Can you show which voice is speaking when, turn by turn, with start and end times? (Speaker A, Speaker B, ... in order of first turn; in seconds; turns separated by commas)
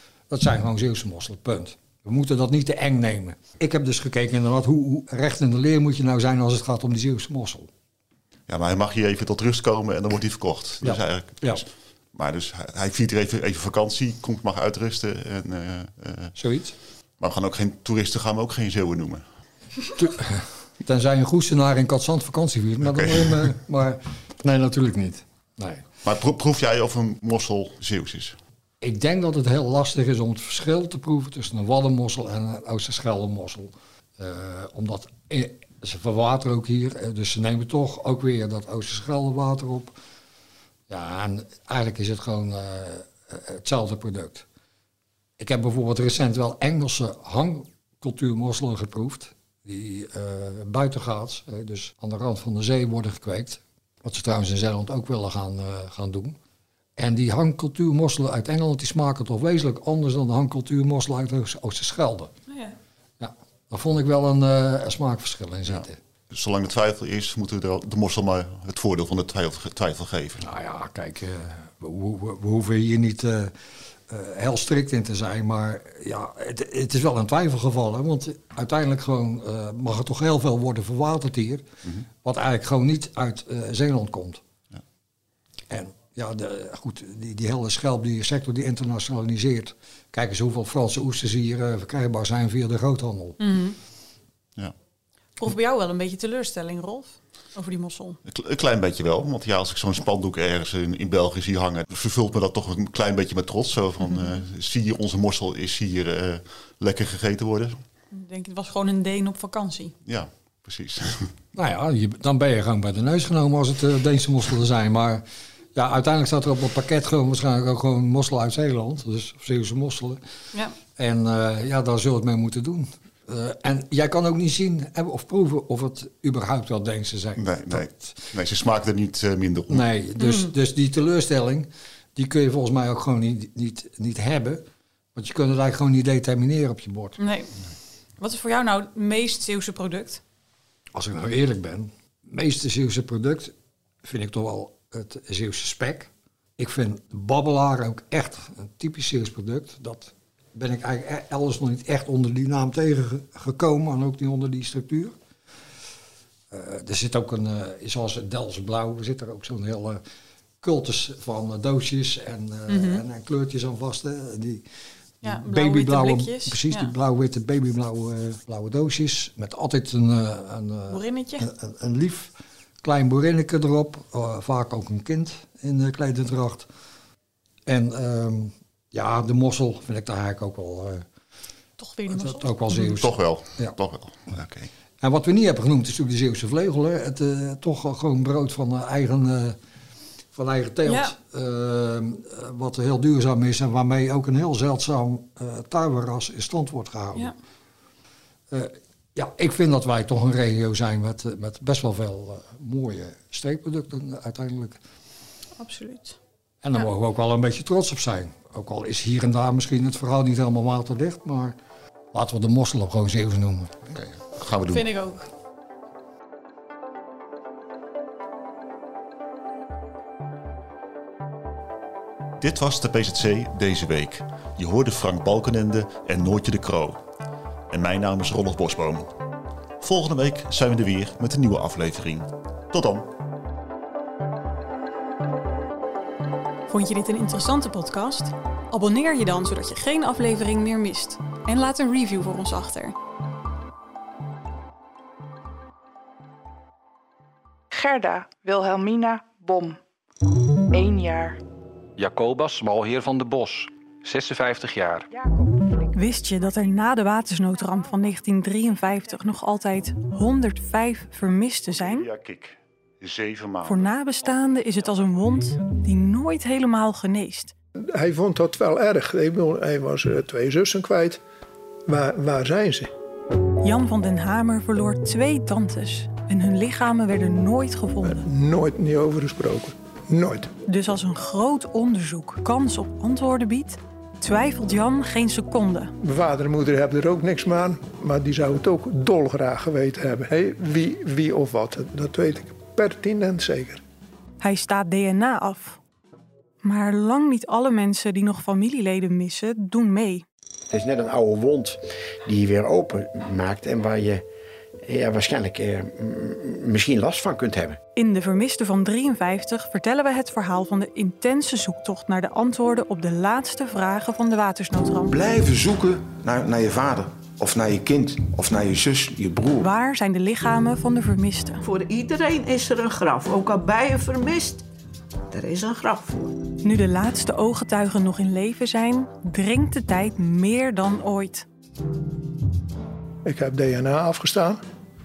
Speaker A: 0.3-7.7, Speaker B: 8.5-16.4, Speaker A: 10.8-11.6, Speaker A: 16.4-16.8, Speaker B: 17.2-19.2, Speaker A: 20.0-25.9, Speaker B: 22.8-23.5, Speaker B: 26.0-28.4, Speaker A: 28.8-40.0, Speaker A: 40.9-44.5, Speaker A: 45.4-56.4, Speaker A: 57.0-62.3, Speaker C: 62.5-62.8, Speaker A: 63.2-66.0, Speaker B: 65.7-70.5, Speaker A: 70.4-73.6, Speaker A: 74.1-81.7, Speaker A: 82.2-84.4, Speaker A: 85.7-93.4, Speaker C: 93.4-93.8, Speaker C: 95.4-98.2, Speaker B: 98.3-107.8, Speaker C: 108.1-109.9, Speaker B: 110.0-111.3, Speaker A: 111.5-115.2, Speaker A: 115.7-120.2, Speaker A: 121.0-128.2, Speaker B: 127.4-129.8, Speaker A: 129.7-137.2, Speaker C: 130.2-130.5, Speaker C: 137.2-137.5, Speaker C: 138.2-140.2, Speaker A: 140.9-155.2, Speaker A: 156.5-160.0, Speaker A: 160.6-164.7, Speaker C: 162.7-163.0, Speaker A: 165.2-176.7, Speaker C: 165.2-166.9, Speaker C: 170.9-171.5, Speaker A: 177.7-181.1, Speaker C: 181.8-182.9, Speaker A: 182.1-183.8, Speaker B: 182.9-184.7, Speaker A: 185.0-189.6, Speaker A: 190.3-197.3, Speaker C: 190.9-191.2, Speaker A: 198.5-204.8, Speaker C: 205.6-206.2, Speaker A: 206.6-211.6, Speaker A: 212.1-213.8, Speaker B: 213.9-214.8, Speaker C: 214.7-215.2, Speaker B: 222.4-227.0, Speaker B: 227.7-229.1, Speaker B: 229.8-233.1, Speaker C: 236.7-242.9, Speaker D: 247.7-249.8, Speaker D: 250.7-251.4, Speaker E: 252.0-255.1, Speaker C: 255.9-262.1, Speaker B: 261.8-263.9, Speaker C: 263.6-267.5, Speaker F: 267.9-271.2, Speaker F: 271.9-272.9, Speaker C: 273.6-278.3, Speaker F: 278.1-280.5, Speaker C: 280.7-285.9, Speaker F: 286.0-293.8, Speaker C: 294.4-295.8, Speaker C: 296.6-300.2, Speaker G: 300.7-304.2, Speaker G: 304.9-307.8, Speaker C: 308.0-315.1, Speaker H: 315.1-319.7, Speaker C: 319.6-321.6, Speaker I: 321.6-324.6, Speaker I: 325.3-326.3, Speaker C: 326.6-331.5, Speaker F: 333.2-334.6